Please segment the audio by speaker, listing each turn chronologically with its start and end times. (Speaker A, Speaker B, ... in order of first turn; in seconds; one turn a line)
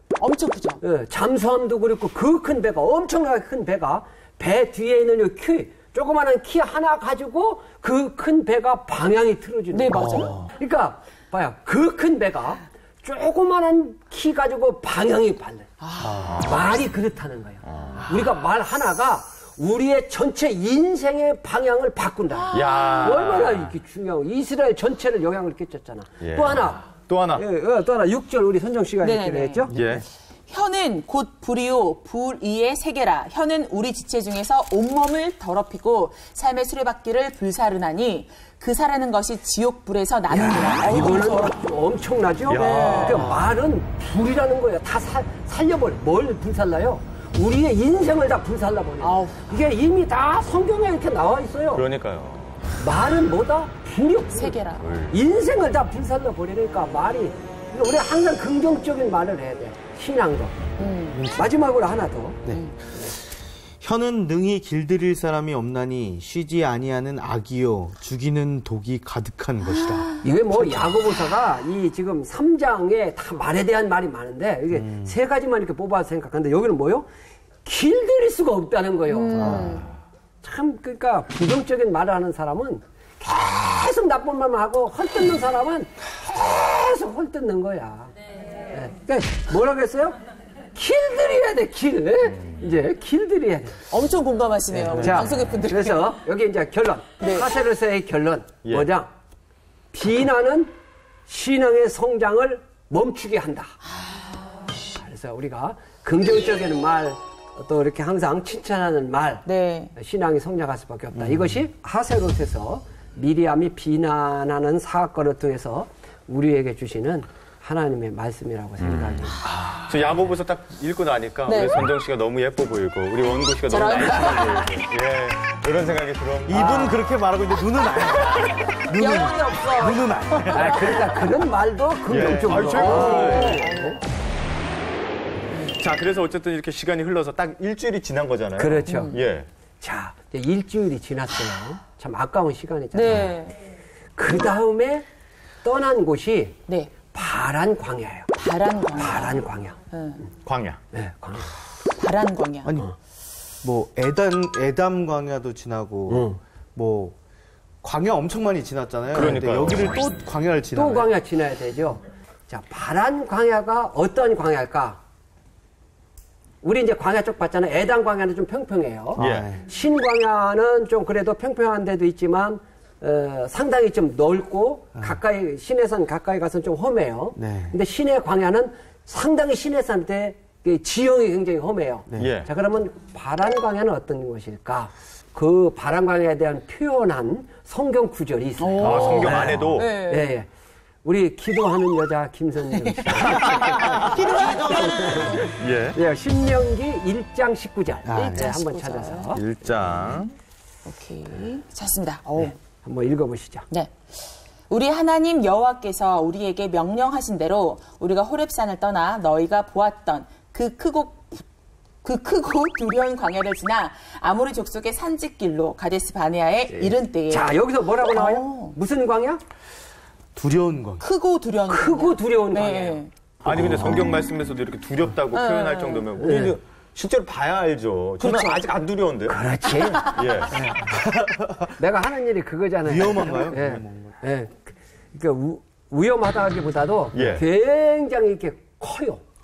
Speaker A: 0.2-0.8
Speaker B: 0.8-15.7
Speaker A: 9.7-10.4
Speaker C: 9.9-10.5
Speaker A: 15.8-16.3
Speaker C: 16.0-16.5
Speaker D: 16.2-16.7
Speaker B: 16.4-30.0
Speaker D: 17.7-18.0
Speaker A: 22.4-23.2
Speaker D: 22.5-23.7
Speaker D: 26.2-27.4
Speaker A: 29.0-29.9
Speaker D: 29.7-30.0
Speaker A: 30.5-41.6
Speaker B: 40.3-51.8
Speaker D: 42.5-43.5
Speaker A: 42.5-43.3
Speaker A: 49.0-49.5
Speaker D: 51.7-52.7
Speaker B: 52.8-54.6
Speaker A: 54.3-54.9
Speaker D: 54.8-55.2
Speaker B: 55.1-60.6
Speaker A: 60.8-61.2
Speaker C: 61.1-61.5
Speaker B: 61.4-62.4
Speaker C: 63.8-70.9
Speaker B: 70.2-77.1
Speaker C: 74.7-75.1
Speaker B: 77.7-79.8
Speaker A: 79.1-79.8
Speaker C: 79.3-79.9
Speaker B: 80.4-88.1
Speaker B: 88.7-90.2
Speaker B: 90.7-93.8
Speaker A: 93.9-96.1
Speaker B: 94.7-99.1
Speaker A: 97.2-97.5
Speaker B: 99.9-100.7
Speaker B: 101.3-103.8
Speaker B: 105.0-119.4
Speaker A: 109.5-109.9
Speaker C: 111.2-111.5
Speaker D: 118.8-127.0
Speaker C: 119.5-119.9
Speaker A: 121.5-121.8
Speaker A: 123.7-124.8
Speaker C: 126.5-131.3
Speaker A: 128.2-130.9
Speaker B: 130.5-134.0
Speaker D: 132.1-133.8
Speaker C: 132.1-133.5
Speaker A: 132.7-134.0
Speaker D: 135.6-139.5
Speaker B: 138.6-139.2
Speaker A: 138.9-139.2
Speaker B: 139.8-143.4
Speaker A: 142.9-143.6
Speaker B: 144.2-145.1
Speaker B: 145.6-148.3
Speaker A: 148.4-150.2
Speaker B: 148.9-149.8
Speaker D: 150.4-150.8
Speaker B: 150.9-151.5
Speaker A: 152.0-152.8
Speaker C: 152.6-152.9
Speaker C: 153.6-157.2
Speaker B: 156.1-156.4
Speaker C: 157.8-161.1
Speaker D: 159.1-160.0
Speaker B: 160.7-165.0
Speaker B: 166.6-190.5
Speaker C: 169.2-169.6
Speaker D: 169.2-169.5
Speaker C: 177.4-177.8
Speaker C: 182.1-182.3
Speaker D: 182.2-182.5
Speaker A: 188.6-190.4
Speaker D: 188.8-189.9
Speaker B: 191.0-199.4
Speaker A: 192.8-193.1
Speaker D: 193.1-194.1
Speaker C: 193.4-195.4
Speaker A: 194.0-195.5
Speaker D: 195.6-196.0
Speaker C: 198.1-198.5
Speaker A: 198.2-199.4
Speaker D: 199.3-200.3
Speaker A: 200.9-202.6
Speaker B: 202.4-203.7
Speaker A: 203.7-211.4
Speaker A: 212.0-218.8
Speaker B: 216.7-219.4
Speaker C: 220.3-221.0
Speaker A: 221.0-223.1
Speaker B: 221.7-223.0
Speaker D: 223.4-229.4
Speaker C: 223.4-224.2
Speaker A: 225.3-226.4
Speaker B: 226.2-226.6
Speaker A: 228.2-228.7
Speaker B: 229.3-231.1
Speaker A: 229.8-230.3
Speaker D: 230.0-230.7
Speaker C: 231.0-231.7
Speaker B: 231.6-239.2
Speaker C: 232.8-234.2
Speaker D: 237.1-237.4